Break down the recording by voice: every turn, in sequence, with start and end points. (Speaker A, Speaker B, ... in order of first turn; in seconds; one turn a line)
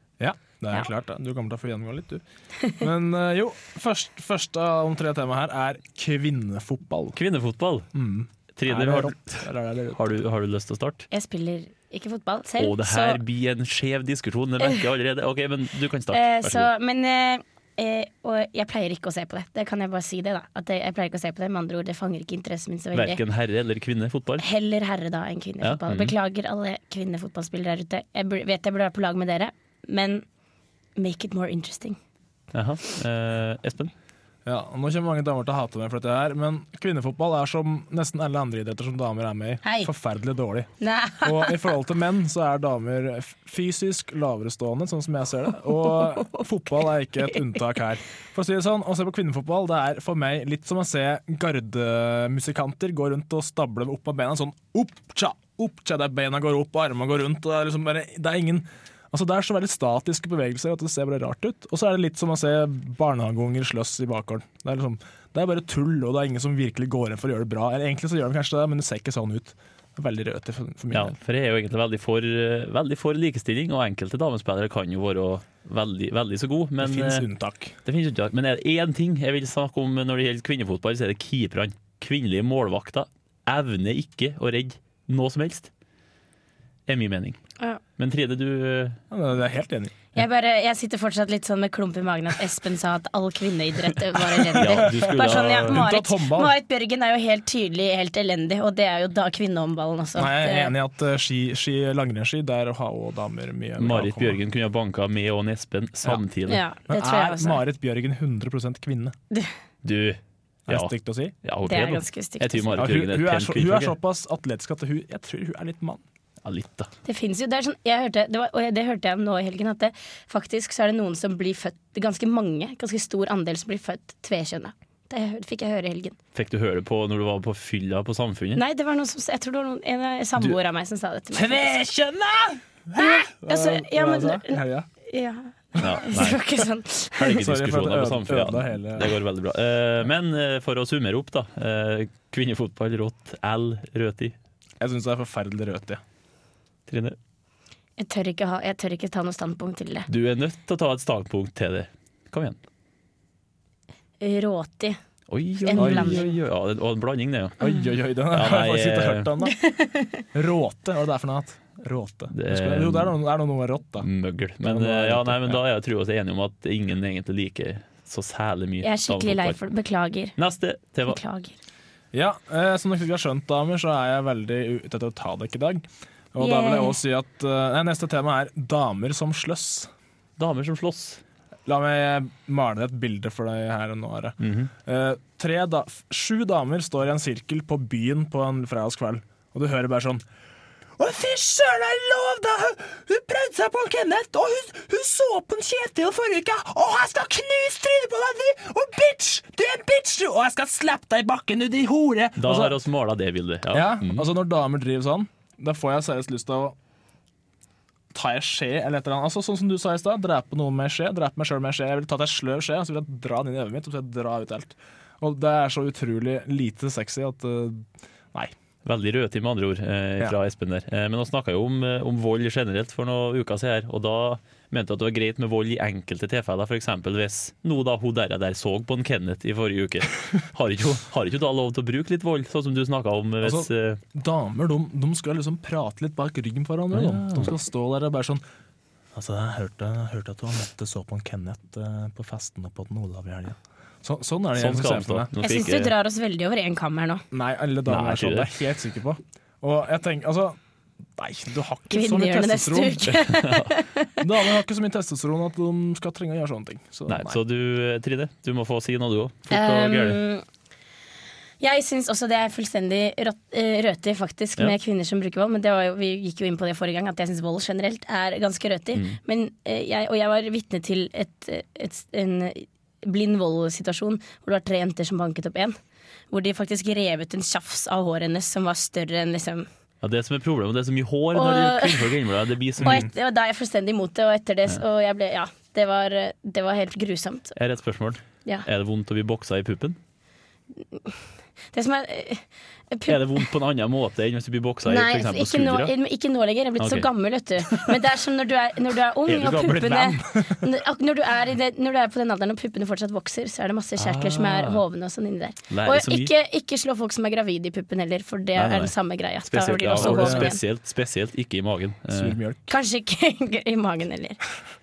Speaker A: 0.2-2.2
Speaker A: 2.8-7.2
Speaker B: 7.1-7.9
Speaker A: 7.9-10.2
Speaker B: 8.6-11.1
Speaker C: 11.1-13.2
Speaker B: 12.6-16.7
Speaker C: 16.1-23.2
Speaker B: 22.9-24.4
Speaker C: 24.4-30.2
Speaker B: 25.6-26.1
Speaker C: 31.0-32.0
Speaker B: 32.5-33.9
Speaker A: 34.4-40.7
Speaker C: 39.6-39.9
Speaker C: 40.8-41.6
Speaker A: 41.2-71.1
Speaker B: 70.9-77.3
Speaker A: 76.8-77.7
Speaker B: 77.8-85.7
Speaker B: 86.9-87.4
Speaker B: 88.0-89.0
Speaker A: 89.1-89.9
Speaker C: 90.1-100.7
Speaker B: 94.5-95.8
Speaker A: 94.7-96.5
Speaker A: 100.2-104.4
Speaker B: 103.8-106.6
Speaker C: 106.5-107.6
Speaker A: 106.9-109.2
Speaker B: 109.8-113.9
Speaker A: 110.7-111.3
Speaker C: 111.6-112.8
Speaker A: 112.8-116.0
Speaker B: 116.4-116.9
Speaker C: 117.0-126.2
Speaker B: 126.3-128.6
Speaker C: 128.5-131.8
Speaker A: 131.3-134.9
Speaker C: 133.0-137.4
Speaker B: 135.8-136.4
Speaker B: 137.2-144.3
Speaker A: 137.3-139.2
Speaker A: 144.8-146.0
Speaker B: 146.9-147.2
Speaker C: 148.0-150.1
Speaker B: 150.1-152.6
Speaker C: 154.2-155.0
Speaker B: 155.3-157.6
Speaker C: 155.6-156.3
Speaker A: 155.7-156.3
Speaker A: 157.6-159.6
Speaker B: 158.3-159.3
Speaker C: 159.4-160.2
Speaker A: 160.3-164.1
Speaker B: 162.3-163.1
Speaker B: 164.0-169.6
Speaker A: 164.6-165.6
Speaker C: 168.8-170.3
Speaker B: 170.4-171.2
Speaker C: 171.1-171.6
Speaker A: 172.1-179.9
Speaker C: 176.4-177.0
Speaker B: 180.4-181.2
Speaker A: 181.7-190.2
Speaker B: 184.4-184.7
Speaker A: 191.0-202.8
Speaker B: 202.3-204.3
Speaker A: 203.7-206.8
Speaker A: 208.1-218.5
Speaker B: 218.8-234.0
Speaker A: 233.4-238.4
Speaker B: 236.9-237.5
Speaker A: 239.1-245.3
Speaker B: 244.5-245.9
Speaker C: 245.4-247.2
Speaker A: 247.3-250.6
Speaker B: 247.9-248.5
Speaker A: 251.2-253.2
Speaker C: 251.9-254.2
Speaker B: 253.1-253.7
Speaker A: 254.2-257.4
Speaker B: 257.1-260.2
Speaker C: 259.5-260.4
Speaker C: 261.6-275.8
Speaker C: 276.3-279.7
Speaker B: 280.0-283.1
Speaker C: 281.3-282.1
Speaker A: 282.8-283.1
Speaker C: 282.8-287.5
Speaker B: 287.6-290.0
Speaker C: 291.7-293.4
Speaker B: 293.1-295.9
Speaker C: 294.9-310.6
Speaker B: 296.8-297.1
Speaker B: 297.6-297.9
Speaker A: 299.3-300.6
Speaker B: 299.3-299.8
Speaker B: 304.0-304.8
Speaker B: 305.7-306.3
Speaker B: 308.6-308.9
Speaker B: 309.4-312.4
Speaker A: 309.9-310.5
Speaker A: 312.1-312.7
Speaker C: 312.7-314.4